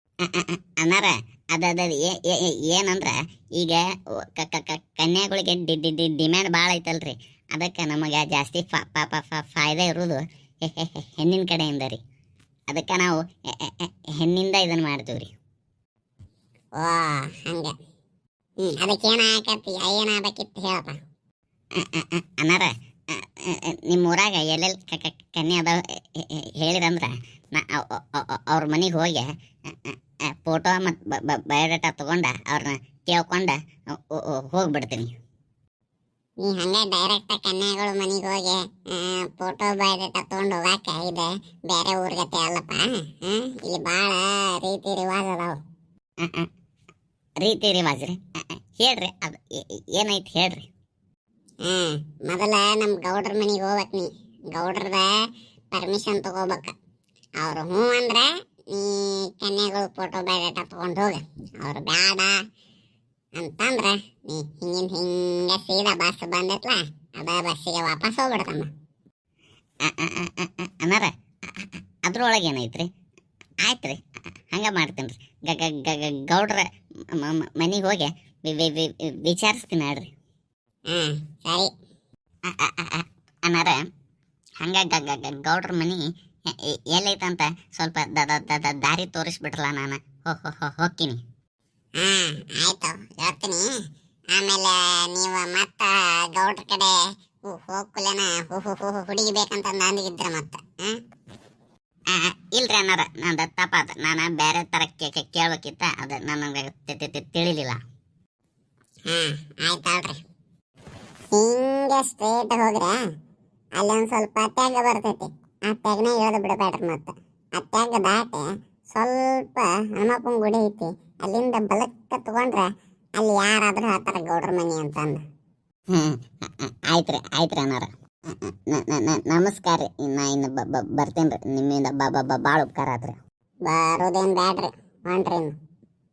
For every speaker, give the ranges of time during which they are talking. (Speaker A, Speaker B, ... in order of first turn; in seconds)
Speaker A: 0.2-12.0, 12.7-15.3, 21.8-35.1, 46.2-46.5, 47.4-50.7, 69.8-72.9, 73.6-74.0, 74.5-80.1, 82.4-83.8, 84.6-91.2, 102.1-107.8, 125.9-133.2
Speaker B: 16.8-17.7, 18.6-21.0, 36.4-45.6, 51.6-55.1, 55.7-56.8, 57.4-62.4, 63.4-68.7, 80.9-81.7, 92.0-93.8, 94.3-101.0, 109.1-110.2, 111.3-113.0, 113.8-125.2, 133.7-135.5